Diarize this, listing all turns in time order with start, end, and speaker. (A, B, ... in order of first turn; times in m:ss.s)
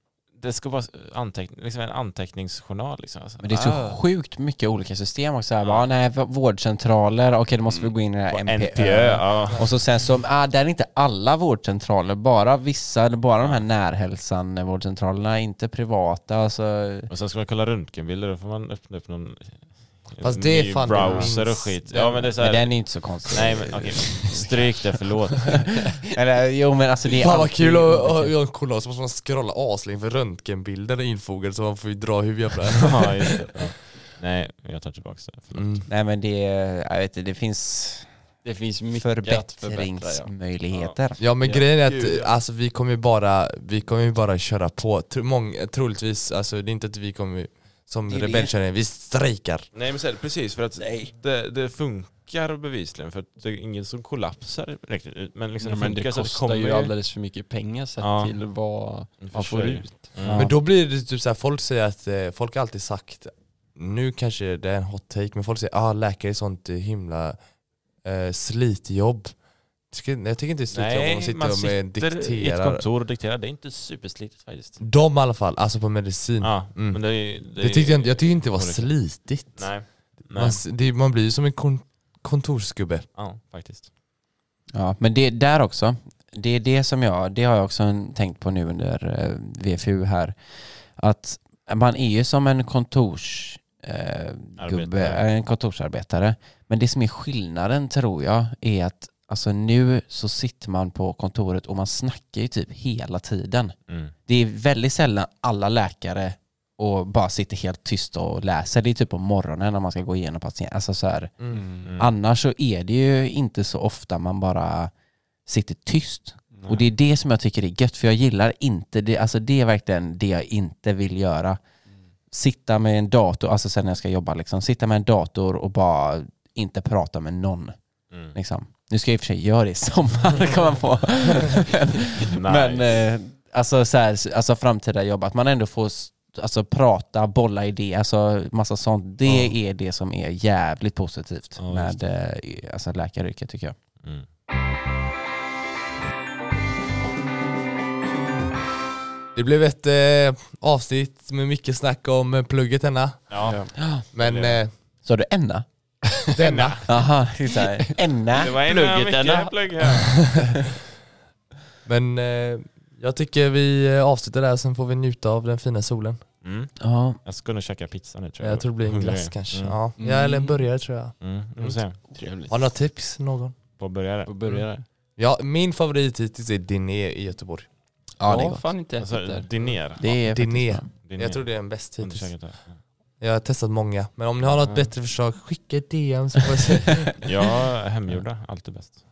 0:00.3-0:04.0 A
0:03.4-0:17.1 B
0:05.6-0:06.0 A
0:08.3-0:09.9 A
0:13.4-0:13.6 A
0:17.1-0:25.8 A
0:20.2-0:22.3 C
0:20.9-0:21.3 B
0:22.4-0:24.7 B
0:26.0-0:28.4 B
0:27.2-0:33.7 C
0:32.8-0:35.9 A
0:35.5-0:35.9 C
0:35.9-0:38.1 B
0:38.4-0:40.3 D
0:38.9-0:41.2 B
0:40.7-0:41.0 A
0:41.2-0:49.7 C
0:41.4-0:41.7 D
0:41.8-0:42.3 A
0:48.1-0:48.5 B
0:49.7-0:56.9 A
0:55.6-1:00.3 D
0:58.0-0:58.4 A
0:59.2-1:00.5 A
1:00.2-1:00.6 B
1:00.3-1:12.8 C
1:10.7-1:14.8 A
1:14.8-1:23.1 C
1:16.4-1:20.6 A
1:23.1-1:23.9 A
1:24.7-1:54.9 B
1:34.6-1:35.2 A
1:43.9-1:44.1 A
1:51.5-1:51.9 D
1:51.8-1:52.1 A
1:55.4-2:01.6 B
1:56.5-1:56.8 D
2:02.3-2:07.7 B
2:08.1-2:08.4 A
2:08.3-2:23.8 B
2:12.2-2:13.0 A
2:19.2-2:19.5 C
2:21.6-2:22.0 A
2:24.0-2:24.2 A
2:29.3-2:33.6 C
2:33.3-2:34.6 A
2:33.4-2:33.7 D
2:33.8-2:34.0 B
2:34.1-2:34.7 C
2:35.0-2:35.6 B
2:36.3-2:37.1 C
2:36.4-2:37.1 A
2:36.8-2:38.6 B
2:38.3-2:40.3 A
2:38.7-2:40.0 D
2:40.3-2:40.6 C
2:41.8-2:46.2 C
2:46.4-2:49.8 A
2:46.8-2:47.2 B
2:48.4-2:53.6 C
2:50.0-2:50.6 D
2:51.2-2:52.0 A
2:52.1-2:52.7 D
2:53.8-2:54.7 A
2:54.2-2:54.8 D
2:55.1-2:57.7 C
2:58.2-2:58.7 B
2:58.2-2:59.8 D
2:59.0-3:00.2 A
3:00.0-3:00.9 B
3:00.3-3:02.6 C
3:01.0-3:02.8 A
3:03.2-3:07.2 C
3:07.2-3:09.0 A